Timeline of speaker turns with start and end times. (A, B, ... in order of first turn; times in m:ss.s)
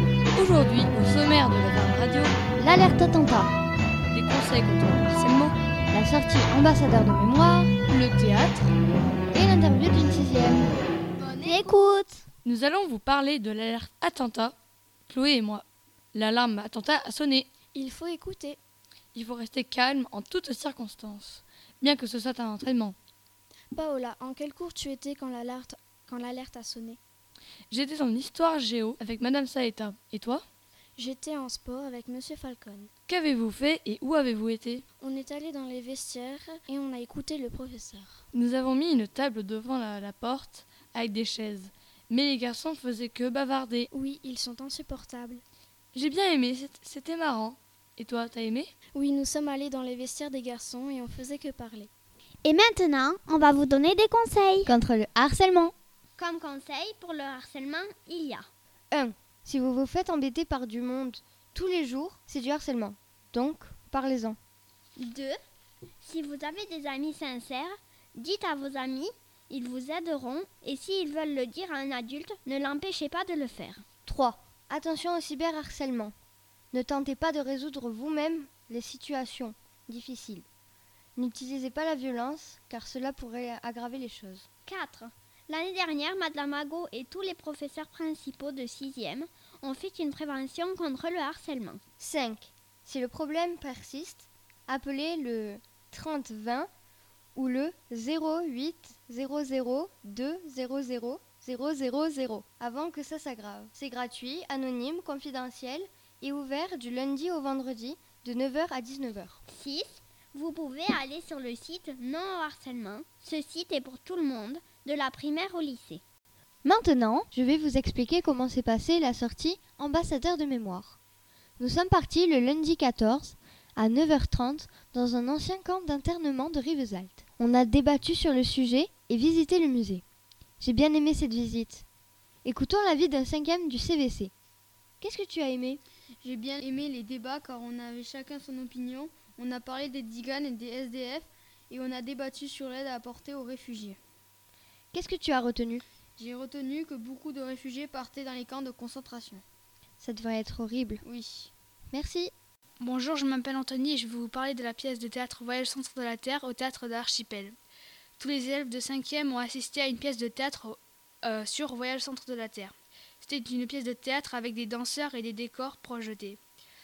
0:00.4-0:02.4 A
0:02.6-0:03.5 B
0:04.1-0:05.5 A
0:05.9-0:07.7 B
0:07.9-0:08.7 A
0:09.3-0:10.7 B
0:11.2-0:12.2 C
0:12.4-0:14.6 A
0:15.1-0:17.5 A
0:17.7-0:18.6 D
0:19.1-0:23.0 A
0:23.7-0:27.0 D
0:27.7-0:30.4 A
0:31.0-0:32.9 D
0:33.1-0:34.8 A
0:35.0-0:38.2 D
0:38.3-0:43.9 A
0:43.9-0:45.4 D
0:45.9-0:48.7 A
0:48.9-0:51.9 D
0:52.4-0:54.7 C
0:54.7-0:55.7 B
0:56.2-0:58.5 C
0:58.9-1:04.4 B
1:05.0-1:05.4 C
1:06.0-1:13.8 C
1:14.1-1:16.1 B
1:16.7-1:20.4 B
1:21.2-1:24.4 B
1:24.7-1:31.8 C
1:32.0-1:36.7 B
1:37.4-1:49.4 B
1:49.5-1:56.0 C
1:56.6-2:01.0 B
2:01.6-2:10.0 B
2:10.6-2:11.8 B
2:12.4-2:14.3 B
2:15.0-2:15.8 B
2:16.2-2:24.0 E
2:24.9-2:25.8 B
2:26.2-2:29.4 E
2:30.0-2:31.0 B
2:31.1-2:31.5 E
2:31.9-2:32.3 B
2:32.8-2:37.5 F
2:38.2-2:46.4 F